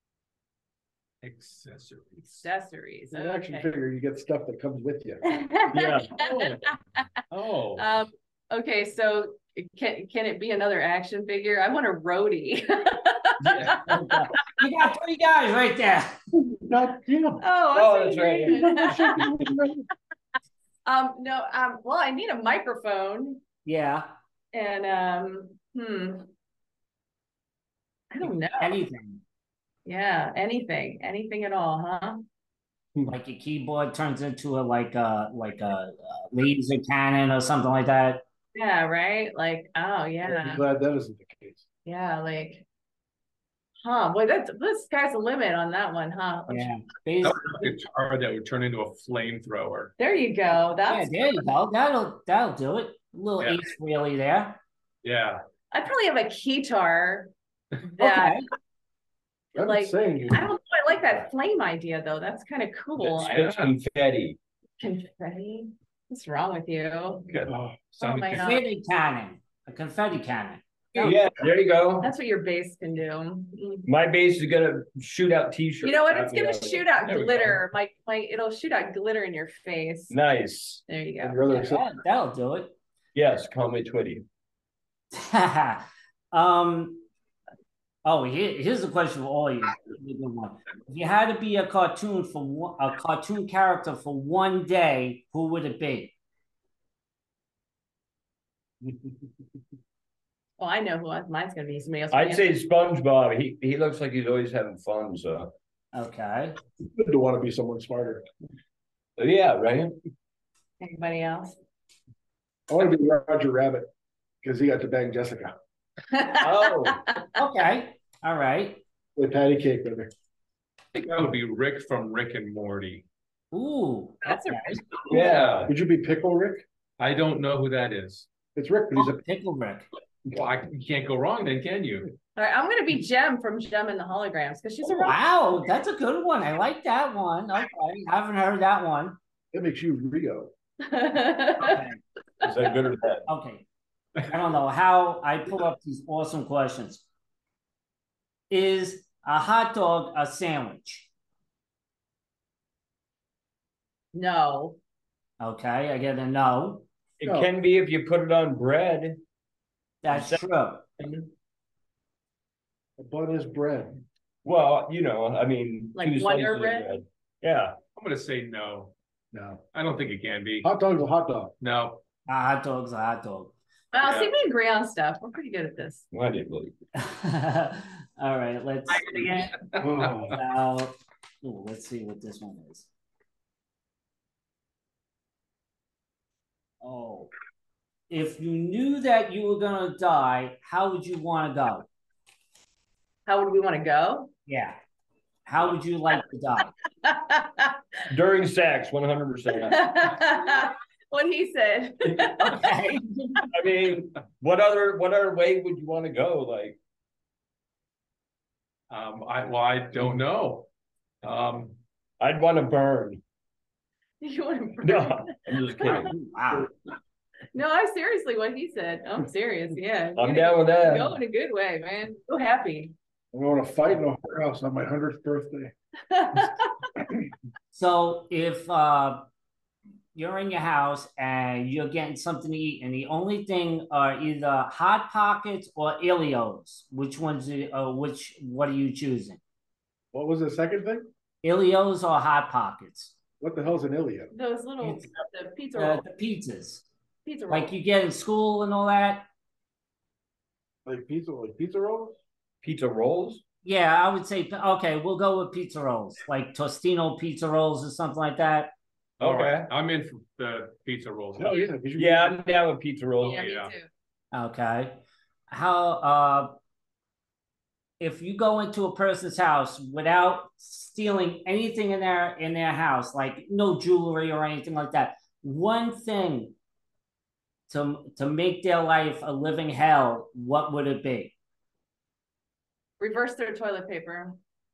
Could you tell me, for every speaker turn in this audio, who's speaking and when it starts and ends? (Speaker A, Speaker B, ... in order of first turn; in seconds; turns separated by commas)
Speaker A: 1.2-2.5, Speaker B: 2.3-3.7, Speaker C: 3.1-5.3, Speaker B: 5.2-7.2, Speaker D: 5.7-6.2, Speaker A: 6.2-6.6, Speaker A: 7.3-7.9, Speaker B: 7.8-14.2, Speaker D: 13.4-14.3, Speaker E: 14.4-16.1, Speaker C: 16.4-17.4, Speaker B: 17.4-19.3, Speaker D: 17.7-18.9, Speaker C: 18.4-19.9, Speaker B: 20.9-23.4, Speaker E: 23.6-24.1, Speaker B: 24.5-26.3, Speaker B: 28.1-28.8, Speaker E: 28.6-29.2, Speaker B: 29.9-32.2, Speaker E: 33.1-38.2, Speaker B: 38.5-40.6, Speaker C: 40.2-41.6, Speaker B: 41.9-42.6, Speaker B: 43.8-46.7, Speaker E: 46.5-47.7, Speaker A: 47.2-49.9, Speaker B: 50.0-51.1, Speaker E: 50.9-54.6, Speaker A: 55.0-55.4, Speaker B: 55.7-57.3, Speaker B: 57.8-58.4, Speaker E: 58.0-58.5, Speaker C: 59.5-60.5, Speaker B: 59.6-63.4, Speaker A: 63.0-63.8, Speaker D: 63.2-64.4, Speaker B: 64.8-67.3, Speaker C: 67.5-67.9, Speaker B: 68.0-68.6, Speaker A: 68.0-68.6, Speaker E: 68.4-71.2, Speaker D: 71.0-72.1, Speaker B: 72.0-73.9, Speaker D: 73.9-76.9, Speaker B: 75.8-80.2, Speaker A: 77.0-77.6, Speaker D: 80.1-80.8, Speaker B: 80.9-81.7, Speaker C: 81.2-81.9, Speaker E: 81.5-82.8, Speaker D: 83.1-84.2, Speaker E: 85.1-87.0, Speaker E: 88.0-96.1, Speaker B: 100.6-102.5, Speaker D: 102.1-105.5, Speaker E: 105.9-106.6, Speaker C: 106.8-108.2, Speaker D: 109.2-109.9, Speaker B: 110.8-111.6, Speaker C: 112.7-113.9, Speaker C: 114.4-115.5, Speaker B: 116.1-117.2, Speaker D: 116.4-117.0, Speaker E: 117.3-118.8, Speaker C: 119.1-120.1, Speaker A: 120.9-123.0, Speaker E: 123.5-124.8, Speaker B: 124.2-124.8, Speaker D: 125.1-125.7, Speaker A: 125.1-125.7, Speaker C: 125.7-126.6, Speaker A: 127.0-128.3, Speaker C: 128.5-129.2, Speaker E: 128.9-129.9, Speaker A: 130.3-132.1, Speaker B: 132.4-135.2, Speaker E: 134.8-139.2, Speaker C: 139.5-140.5, Speaker B: 140.8-141.8, Speaker E: 141.6-142.0, Speaker D: 142.4-143.3, Speaker E: 143.3-143.6, Speaker E: 144.2-147.0, Speaker E: 148.5-151.1, Speaker B: 154.1-154.8, Speaker E: 155.4-156.9, Speaker D: 157.2-159.2, Speaker C: 157.2-157.5, Speaker E: 160.0-160.9, Speaker D: 160.1-160.4, Speaker D: 161.0-161.3, Speaker C: 163.0-164.0, Speaker D: 164.4-167.8, Speaker B: 165.9-166.9, Speaker A: 167.9-168.9, Speaker C: 169.3-169.6, Speaker A: 169.7-170.7, Speaker C: 170.6-171.5, Speaker A: 171.6-172.0, Speaker E: 172.3-173.5, Speaker B: 173.9-176.1, Speaker D: 174.0-174.3, Speaker D: 176.1-176.7, Speaker E: 176.9-179.5, Speaker A: 179.1-180.3, Speaker C: 179.8-180.4, Speaker E: 180.2-182.9, Speaker E: 186.8-187.3, Speaker E: 188.1-191.8, Speaker B: 193.3-194.3, Speaker E: 194.5-194.8, Speaker E: 195.5-196.7, Speaker B: 197.0-198.0, Speaker D: 198.1-199.8, Speaker B: 199.7-202.7, Speaker D: 202.0-202.4, Speaker E: 202.4-203.5, Speaker D: 203.5-206.8, Speaker A: 208.9-210.7, Speaker A: 211.2-211.8, Speaker D: 212.2-213.2, Speaker B: 214.2-216.0, Speaker D: 214.8-216.1, Speaker E: 215.8-216.7, Speaker B: 217.5-222.9, Speaker D: 220.2-221.2, Speaker C: 223.3-225.7, Speaker B: 226.1-226.9, Speaker E: 227.7-229.2, Speaker E: 230.1-239.4, Speaker C: 240.1-241.1, Speaker E: 241.4-243.1, Speaker C: 243.4-244.3, Speaker B: 244.3-246.0, Speaker E: 244.8-245.1, Speaker E: 245.8-246.8, Speaker B: 247.2-247.7, Speaker E: 247.5-249.2, Speaker C: 250.8-252.2, Speaker D: 252.6-253.4, Speaker E: 253.6-258.7, Speaker D: 259.2-259.7, Speaker A: 259.2-261.7, Speaker C: 261.4-262.4, Speaker D: 262.0-263.5, Speaker B: 263.2-263.9, Speaker A: 263.3-263.7, Speaker E: 264.3-266.5, Speaker E: 268.0-276.5, Speaker E: 277.7-281.3, Speaker B: 283.0-284.4